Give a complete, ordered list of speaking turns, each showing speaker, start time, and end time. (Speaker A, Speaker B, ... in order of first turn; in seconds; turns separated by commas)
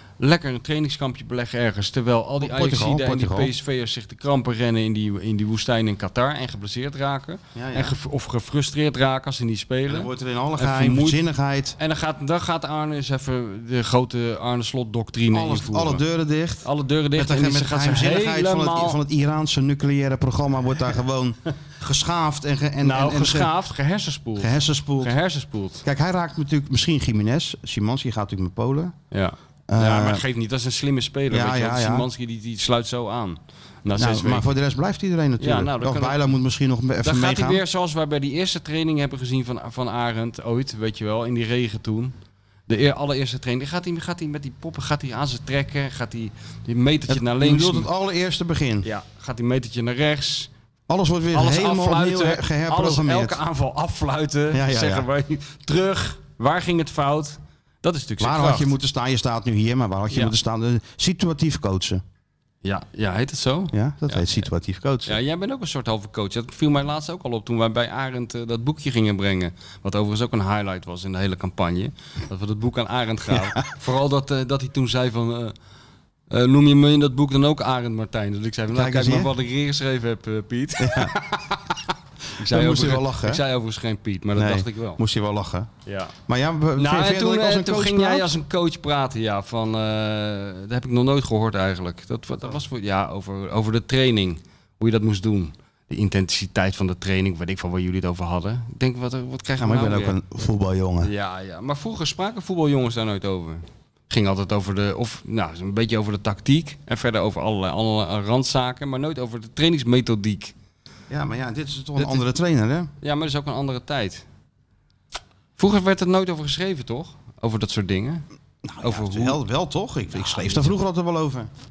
Speaker A: 0.2-11.2, Speaker B: 2.4-3.5, Speaker B: 7.5-8.0, Speaker B: 9.8-11.8, Speaker A: 11.8-16.0, Speaker B: 15.3-23.5, Speaker A: 16.6-19.0, Speaker A: 22.8-25.8, Speaker B: 24.4-25.1, Speaker B: 25.8-28.9, Speaker A: 29.1-34.5, Speaker B: 29.7-30.2, Speaker B: 31.3-32.1, Speaker B: 34.0-37.6, Speaker A: 35.4-36.1, Speaker A: 37.0-42.1, Speaker A: 42.7-47.9, Speaker B: 47.1-48.9, Speaker A: 48.8-50.5, Speaker B: 50.9-53.4, Speaker A: 51.3-58.7, Speaker B: 54.5-55.0, Speaker B: 58.2-62.0, Speaker A: 62.6-64.4, Speaker B: 63.7-65.2, Speaker A: 65.0-75.5, Speaker B: 73.3-73.6, Speaker A: 76.3-81.3, Speaker B: 78.7-79.3, Speaker B: 80.8-81.6, Speaker A: 82.4-85.0, Speaker B: 82.4-83.4, Speaker B: 84.3-85.7, Speaker A: 85.8-86.1, Speaker B: 86.3-88.3, Speaker A: 86.8-100.2, Speaker B: 99.6-101.1, Speaker A: 101.0-110.5, Speaker B: 111.1-112.9, Speaker A: 113.0-114.2, Speaker A: 115.6-118.2, Speaker B: 118.6-121.5, Speaker A: 118.8-119.4, Speaker A: 120.1-120.7